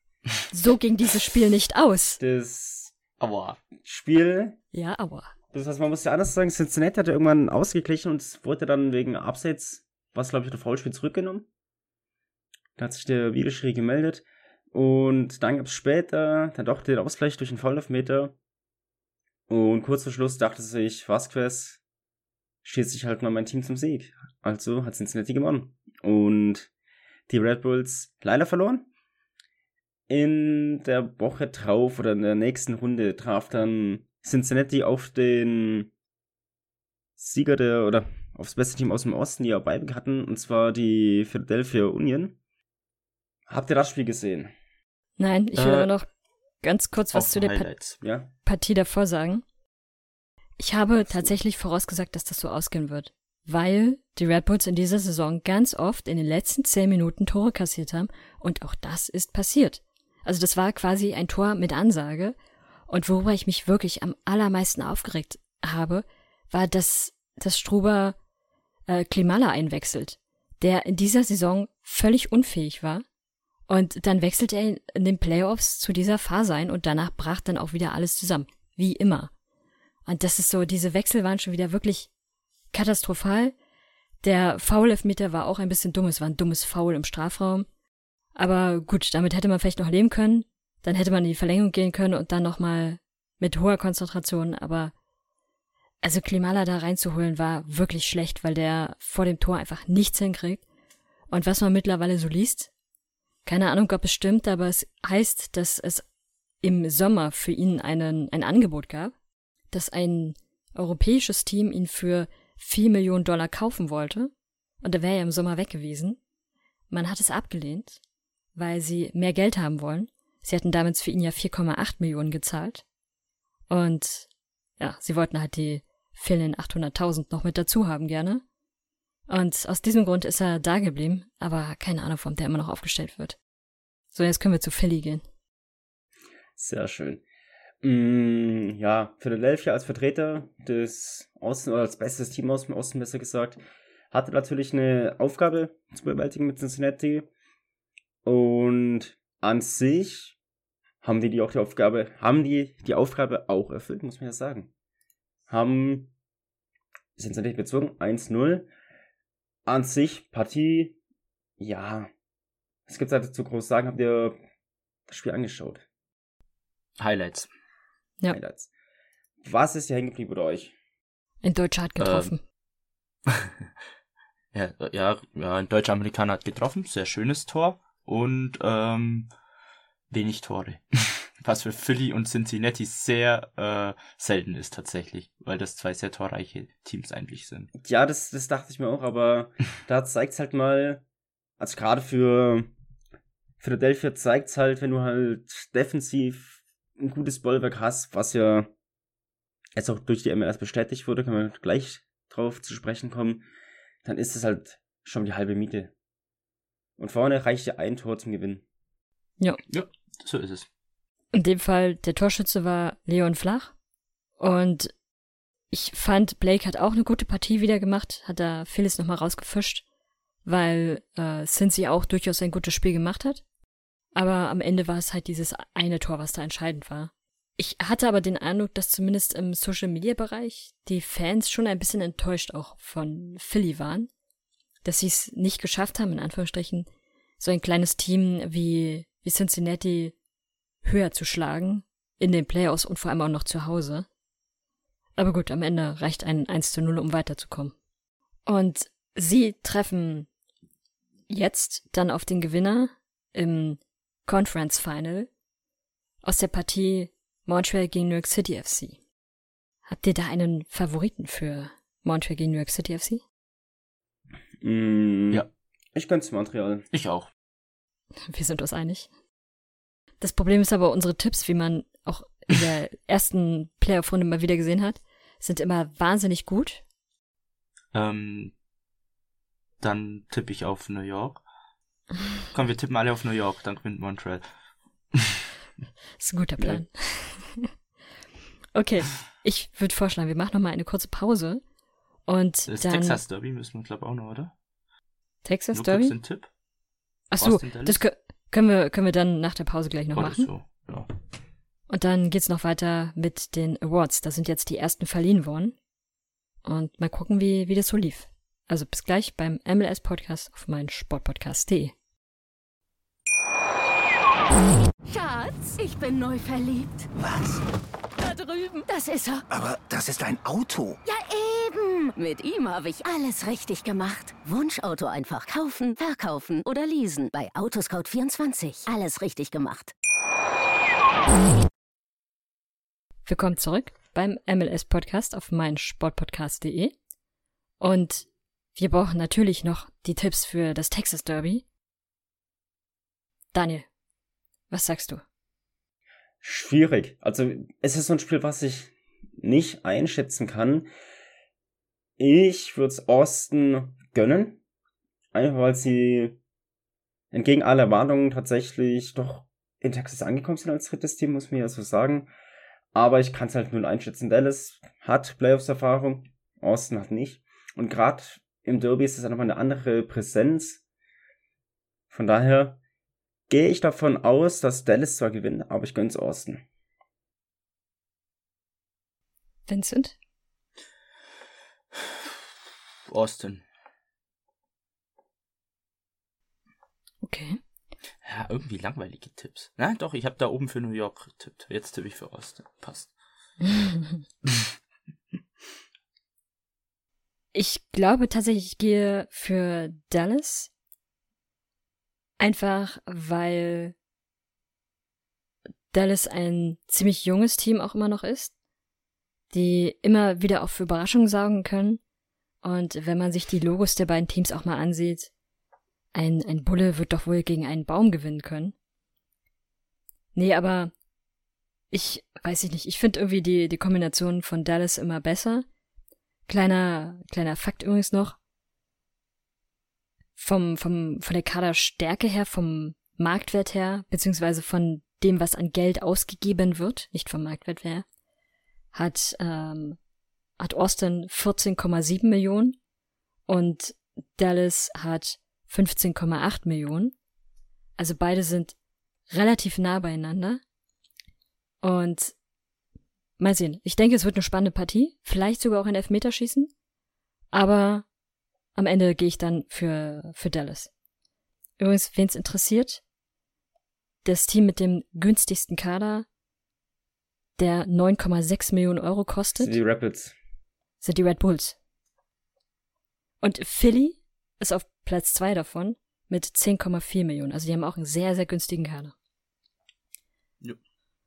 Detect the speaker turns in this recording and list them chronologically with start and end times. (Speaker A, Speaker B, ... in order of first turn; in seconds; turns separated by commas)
Speaker A: 0.5-2.2, Speaker B: 2.2-2.9, Speaker C: 3.2-3.6, Speaker B: 3.8-4.6, Speaker A: 4.7-5.3, Speaker B: 5.5-11.5, Speaker B: 12.8-18.4, Speaker B: 19.5-21.8, Speaker B: 22.6-26.7, Speaker B: 27.3-28.9, Speaker B: 30.1-35.9, Speaker B: 37.2-42.4, Speaker B: 43.5-44.5, Speaker A: 45.2-46.1, Speaker C: 45.5-45.9, Speaker A: 46.6-47.7, Speaker C: 47.1-48.0, Speaker B: 48.0-48.3, Speaker A: 48.4-49.4, Speaker A: 50.6-62.4, Speaker A: 62.9-68.2, Speaker A: 68.9-73.0, Speaker A: 73.7-79.3, Speaker A: 80.0-82.1, Speaker A: 82.7-83.5, Speaker A: 84.2-87.7, Speaker A: 88.3-94.9, Speaker A: 96.0-100.6, Speaker A: 101.3-102.7, Speaker A: 103.5-106.0, Speaker A: 106.6-109.1, Speaker A: 109.7-114.3, Speaker A: 114.8-116.2, Speaker A: 116.9-118.0, Speaker A: 118.5-122.8, Speaker A: 123.7-124.3, Speaker A: 124.8-128.4, Speaker A: 129.3-133.4, Speaker A: 134.1-135.2, Speaker B: 136.6-137.2, Speaker B: 137.8-147.3, Speaker B: 148.2-150.4, Speaker B: 151.0-154.7, Speaker B: 155.5-156.1, Speaker B: 157.2-158.7, Speaker B: 159.7-161.0, Speaker B: 161.6-162.1, Speaker B: 162.9-164.4, Speaker B: 165.1-165.8, Speaker C: 167.0-167.5, Speaker B: 168.3-168.7, Speaker B: 169.4-170.7, Speaker A: 171.4-172.4, Speaker C: 172.0-172.3, Speaker C: 173.3-173.7, Speaker C: 174.5-179.3, Speaker C: 180.1-187.7, Speaker B: 187.8-191.0, Speaker B: 191.6-192.7, Speaker B: 193.6-198.7, Speaker B: 199.8-203.4, Speaker B: 204.0-205.9, Speaker B: 207.0-208.6, Speaker C: 209.7-210.7, Speaker A: 211.3-213.7, Speaker A: 214.4-214.9, Speaker A: 215.7-219.8, Speaker A: 220.4-223.4, Speaker A: 224.1-234.1, Speaker A: 234.8-236.9, Speaker A: 237.4-240.1, Speaker A: 240.8-244.1, Speaker A: 245.2-247.7, Speaker A: 248.4-250.3, Speaker A: 251.3-255.3, Speaker A: 256.2-259.0, Speaker A: 259.9-263.2, Speaker B: 264.6-266.9, Speaker C: 266.9-267.3, Speaker A: 268.3-269.1, Speaker A: 270.2-276.8, Speaker C: 277.9-278.5, Speaker C: 279.8-281.4, Speaker C: 282.5-284.4, Speaker C: 285.1-285.4, Speaker A: 286.2-287.7, Speaker A: 288.7-291.6, Speaker A: 292.3-293.2, Speaker C: 292.7-294.5, Speaker A: 295.4-296.1, Speaker C: 295.7-296.5, Speaker A: 297.3-300.5, Speaker C: 297.4-298.0, Speaker C: 300.1-301.1, Speaker A: 301.9-305.7, Speaker A: 306.6-311.9, Speaker D: 315.1-317.1, Speaker E: 317.1-317.6, Speaker D: 318.2-319.4, Speaker E: 319.5-321.0, Speaker D: 321.1-329.9, Speaker A: 333.2-336.9, Speaker A: 337.8-341.6, Speaker A: 343.5-343.9, Speaker A: 344.7-345.2, Speaker B: 346.4-350.9, Speaker B: 352.2-354.6, Speaker B: 355.3-356.4, Speaker B: 357.3-362.3, Speaker B: 362.9-370.8, Speaker B: 372.1-372.8, Speaker B: 373.5-376.6, Speaker A: 379.7-380.1, Speaker C: 381.9-382.4, Speaker C: 383.1-383.6, Speaker A: 387.2-387.6, Speaker C: 388.2-393.1, Speaker A: 393.6-394.2, Speaker A: 397.5-400.7, Speaker A: 402.4-403.9, Speaker A: 405.9-408.5, Speaker A: 409.5-412.0, Speaker A: 412.6-415.3, Speaker A: 416.1-418.7, Speaker A: 420.3-420.9, Speaker A: 421.9-425.6, Speaker A: 426.5-428.4, Speaker A: 430.4-438.0, Speaker A: 438.9-440.0, Speaker A: 440.6-442.8, Speaker A: 443.5-447.1, Speaker A: 448.0-448.7, Speaker A: 449.3-450.6, Speaker A: 451.8-452.3, Speaker A: 453.4-456.7, Speaker A: 457.5-458.0, Speaker A: 458.7-460.9, Speaker A: 461.8-463.0, Speaker A: 464.2-466.2, Speaker A: 467.6-469.8, Speaker B: 469.6-470.4, Speaker A: 471.0-471.8, Speaker A: 473.4-479.1